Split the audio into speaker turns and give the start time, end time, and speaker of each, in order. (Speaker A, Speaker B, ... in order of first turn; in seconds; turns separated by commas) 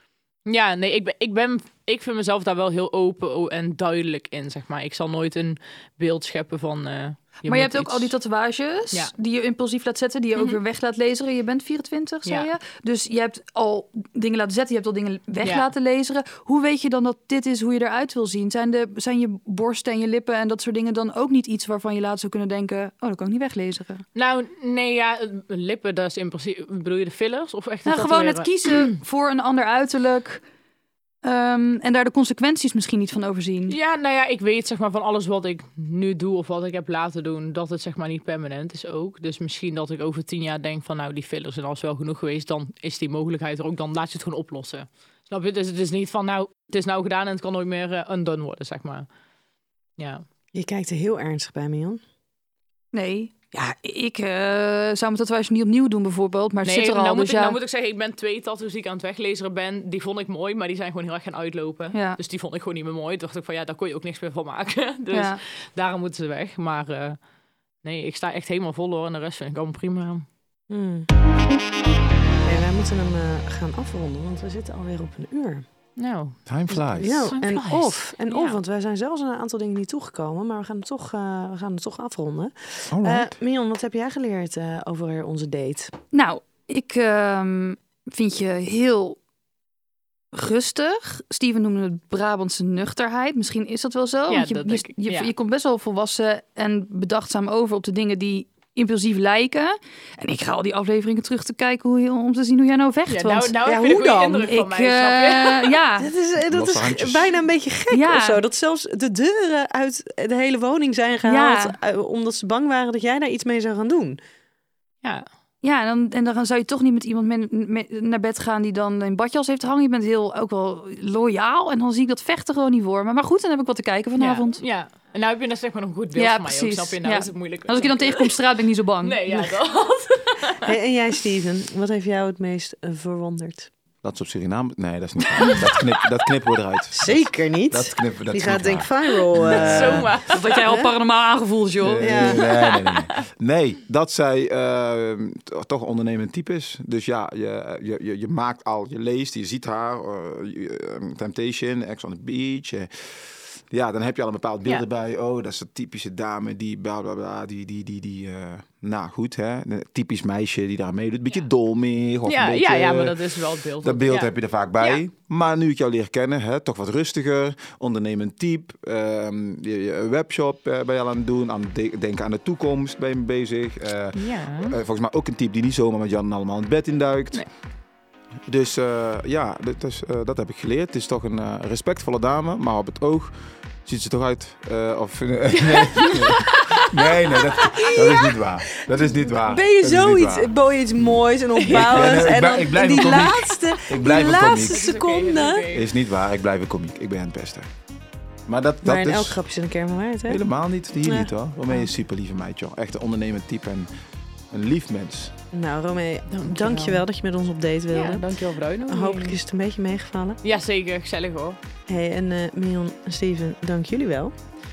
Speaker A: 0.5-8.1, Speaker B: 7.5-24.0, Speaker A: 12.2-12.5, Speaker A: 15.4-15.7, Speaker A: 24.1-29.0, Speaker B: 27.8-30.4, Speaker B: 31.2-33.8, Speaker A: 33.7-49.1, Speaker A: 50.0-50.2, Speaker C: 50.5-52.0, Speaker B: 52.9-57.6, Speaker A: 56.6-67.2, Speaker B: 61.9-62.2, Speaker B: 65.1-65.4, Speaker A: 67.8-70.2, Speaker C: 70.7-71.1, Speaker C: 72.4-75.6, Speaker A: 76.0-78.6, Speaker D: 76.5-77.3, Speaker C: 77.0-85.9, Speaker D: 82.9-83.3, Speaker B: 86.1-89.2, Speaker B: 90.3-103.5, Speaker A: 94.3-95.3, Speaker A: 103.1-105.8, Speaker C: 103.6-104.5, Speaker B: 104.5-106.1, Speaker C: 106.0-114.2, Speaker D: 106.5-107.3, Speaker B: 107.9-108.4, Speaker B: 111.2-111.8, Speaker A: 115.0-115.3, Speaker B: 115.6-124.6, Speaker A: 124.2-128.3, Speaker B: 126.2-129.2, Speaker A: 129.0-130.7, Speaker C: 130.6-133.7, Speaker D: 134.0-140.2, Speaker C: 136.9-140.9, Speaker A: 139.4-140.3, Speaker B: 140.2-142.4, Speaker D: 141.8-163.2, Speaker C: 142.0-142.4, Speaker A: 142.3-143.2, Speaker A: 162.2-165.0, Speaker D: 163.8-177.4, Speaker A: 174.1-174.8, Speaker D: 178.4-190.5, Speaker A: 185.8-186.8, Speaker C: 187.7-188.4, Speaker C: 189.0-195.7, Speaker A: 191.6-192.1, Speaker D: 191.7-194.8, Speaker A: 194.4-195.9, Speaker D: 195.7-197.7, Speaker D: 198.5-199.4, Speaker C: 198.8-200.4, Speaker D: 200.3-203.9, Speaker C: 201.0-201.3, Speaker D: 204.5-205.3, Speaker C: 205.5-208.3, Speaker A: 206.3-207.0, Speaker A: 207.9-209.4, Speaker C: 208.9-210.4, Speaker A: 210.4-211.6, Speaker C: 211.9-214.3